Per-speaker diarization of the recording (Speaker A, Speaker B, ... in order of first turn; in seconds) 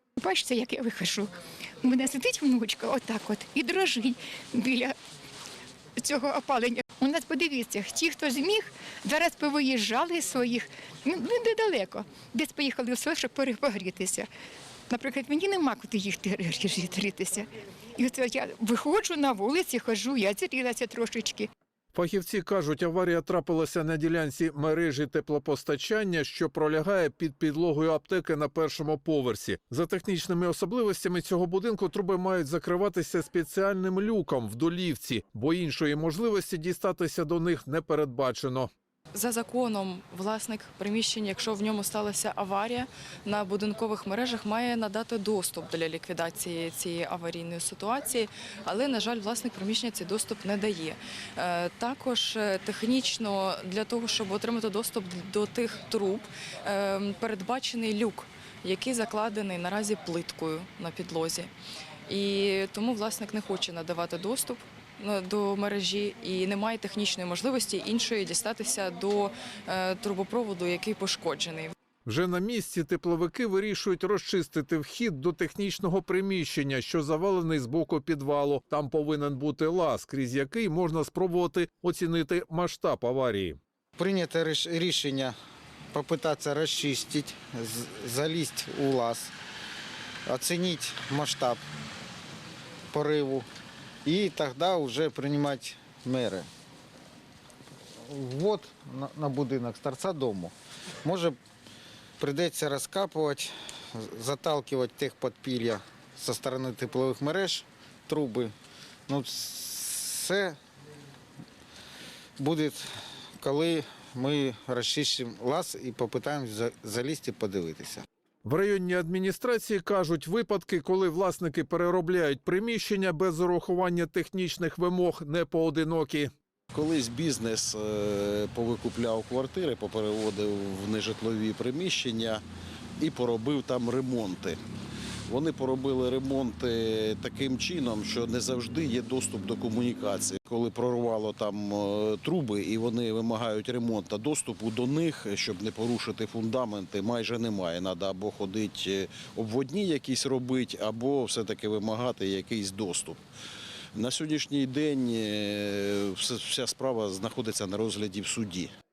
Speaker A: 0.2-5.0, 6.0-14.3, 14.9-21.5
Speaker B: 21.9-38.7, 72.0-83.6, 118.5-126.3
Speaker C: 39.1-61.5, 62.1-71.7
Speaker D: 84.0-85.3, 85.9-89.3, 90.3-91.6, 92.9-93.5, 94.0-96.5, 98.1-101.4, 102.2-108.5, 109.1-110.6, 112.4-112.9, 113.4-118.0
Speaker E: 126.7-132.4, 133.0-134.6, 135.3-153.2, 153.9-158.7